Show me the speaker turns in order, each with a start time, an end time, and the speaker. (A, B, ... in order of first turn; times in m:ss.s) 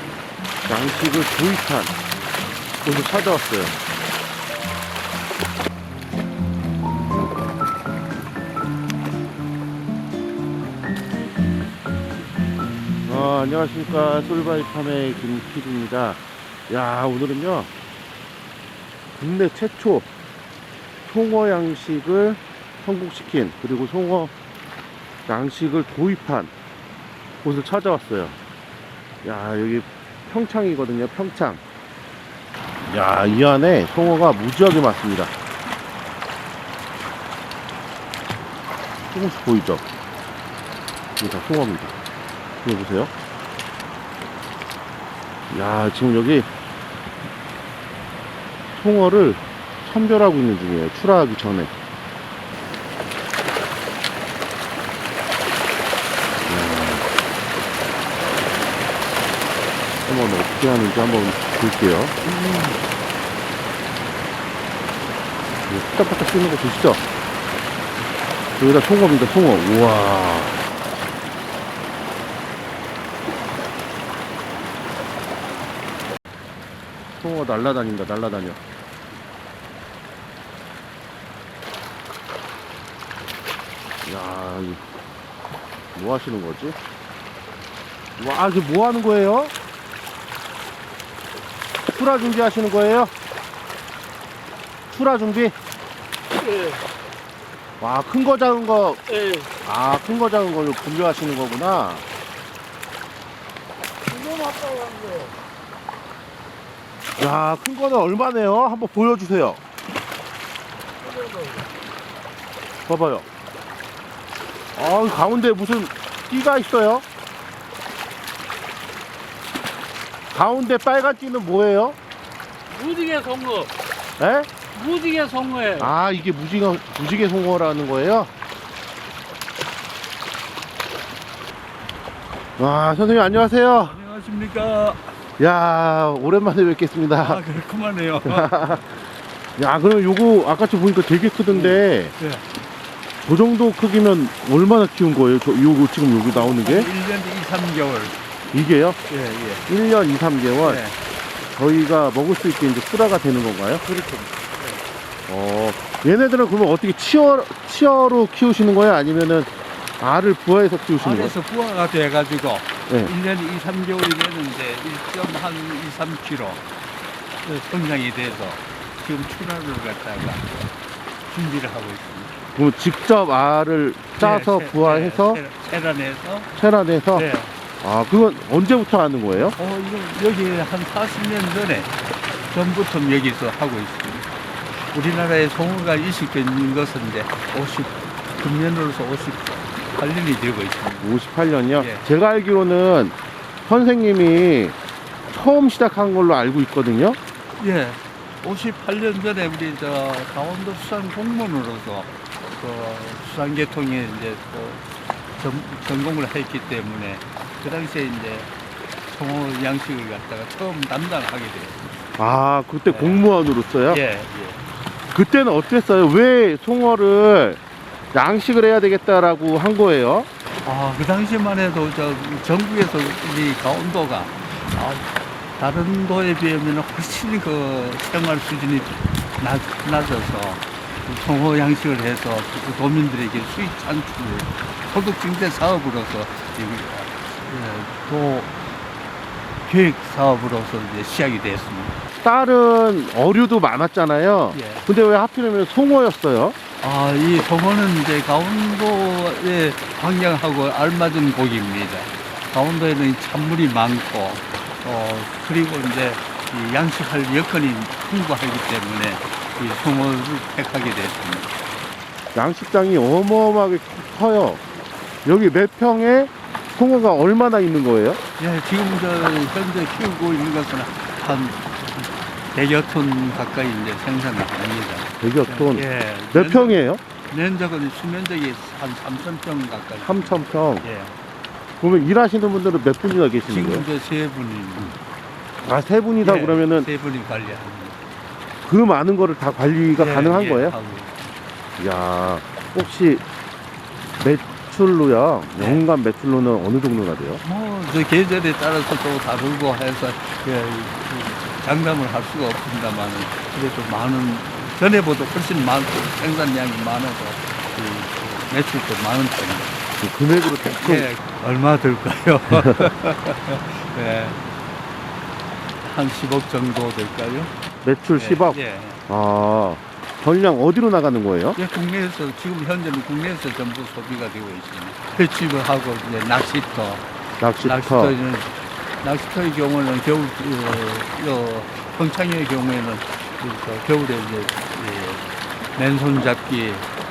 0:00.6-0:01.9 A
0:02.8-0:03.7 A
0:13.1-0:17.7 A
0:19.2-0:20.1 A
0:21.0-0:24.3 A
0:25.3-0:26.5 A
0:27.4-0:28.4 A
0:29.2-0:31.6 A
0:32.9-0:35.3 A
0:39.1-0:39.8 A
0:41.2-0:41.9 A
0:42.6-0:43.1 A
0:45.5-0:46.5 A
0:48.8-0:51.7 A
0:56.4-0:57.0 A
1:00.0-1:02.3 A
1:02.3-1:02.8 B
1:05.7-1:07.0 A
1:08.6-1:10.6 A
1:17.2-1:18.6 A
1:24.0-1:24.8 A
1:25.9-1:26.8 A
1:28.2-1:29.5 A
1:31.9-1:33.1 A
1:34.9-1:35.5 A
1:37.8-1:39.0 A
1:39.2-1:39.4 B
1:39.6-1:42.0 A
1:44.8-1:45.2 B
1:47.2-1:49.6 A
1:52.9-1:53.2 A
1:54.7-1:57.0 A
2:00.3-2:02.0 A
2:02.7-2:03.7 B
2:04.2-2:04.5 A
2:04.7-2:05.9 B
2:05.8-2:08.3 A
2:12.6-2:14.0 A
2:13.8-2:15.1 B
2:15.4-2:17.4 A
2:17.2-2:18.7 B
2:18.2-2:18.8 A
2:19.6-2:22.1 A
2:21.5-2:22.4 B
2:23.2-2:26.9 A
2:26.3-2:28.2 B
2:28.5-2:29.0 A
2:29.1-2:29.6 B
2:29.7-2:30.8 A
2:30.6-2:31.0 B
2:31.5-2:33.8 A
2:33.8-2:34.8 B
2:35.3-2:41.3 A
2:41.0-2:46.6 B
2:47.4-2:50.7 B
2:51.3-2:52.4 B
2:52.5-2:55.4 A
2:54.2-2:56.5 B
2:56.5-2:57.2 A
2:57.1-2:57.5 B
2:57.8-2:59.6 A
2:59.6-3:01.9 B
3:02.5-3:04.2 B
3:04.9-3:11.1 B
3:11.0-3:14.8 A
3:11.8-3:12.1 B
3:15.3-3:17.2 A
3:17.6-3:24.8 B
3:25.4-3:28.5 B
3:29.1-3:31.8 B
3:32.2-3:34.0 A
3:32.9-3:33.3 B
3:33.9-3:34.6 B
3:35.1-3:37.6 A
3:38.1-3:40.3 A
3:40.6-3:58.5 B
3:59.6-4:02.0 B
4:02.2-4:06.6 A
4:04.5-4:04.8 B
4:06.8-4:21.5 B
4:22.3-4:24.6 A
4:25.2-4:28.2 A
4:28.4-4:41.1 B
4:35.2-4:37.0 A
4:40.0-4:40.8 A
4:41.8-4:43.8 A
4:43.4-4:45.0 B
4:45.6-4:46.9 A
4:46.2-4:48.0 B
4:48.6-4:50.7 A
4:49.9-4:51.1 B
4:51.8-4:53.2 A
4:54.2-4:57.4 A
4:55.6-4:55.9 B
4:57.4-5:09.7 B
5:10.0-5:11.1 A
5:10.8-5:14.4 B
5:15.8-5:17.5 B
5:17.8-5:21.6 A
5:18.1-5:19.0 B
5:21.6-5:27.0 B
5:27.4-5:28.2 A
5:27.6-5:35.2 B
5:35.7-5:36.9 B